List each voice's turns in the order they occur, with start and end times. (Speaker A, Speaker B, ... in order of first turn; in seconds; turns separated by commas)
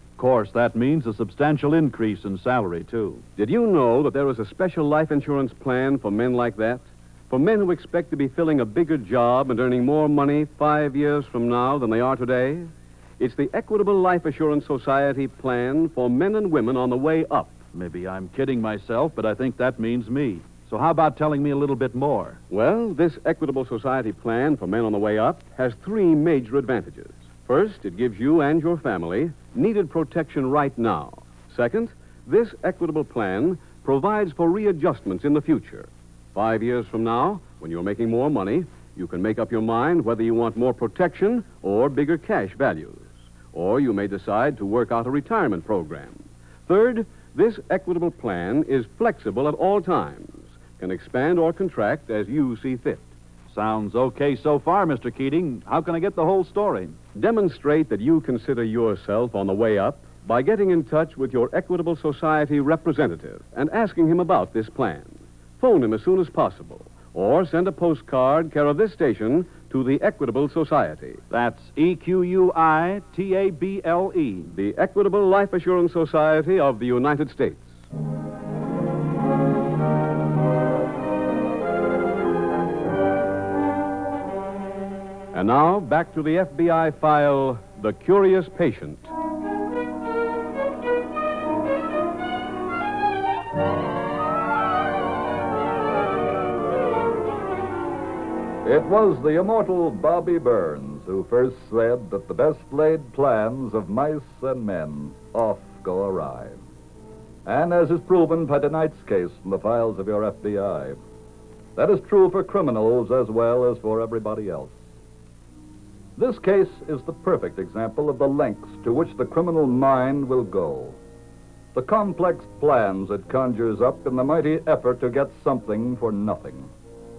Speaker A: 0.2-3.2, Speaker B: 3.4-17.6, Speaker A: 17.7-22.4, Speaker B: 22.5-53.1, Speaker A: 53.5-57.0, Speaker B: 57.1-71.2, Speaker A: 71.3-74.5, Speaker B: 74.5-77.7, Speaker B: 85.3-89.1, Speaker C: 98.6-106.6, Speaker C: 107.5-111.0, Speaker C: 111.8-114.7, Speaker C: 116.2-121.0, Speaker C: 121.8-126.7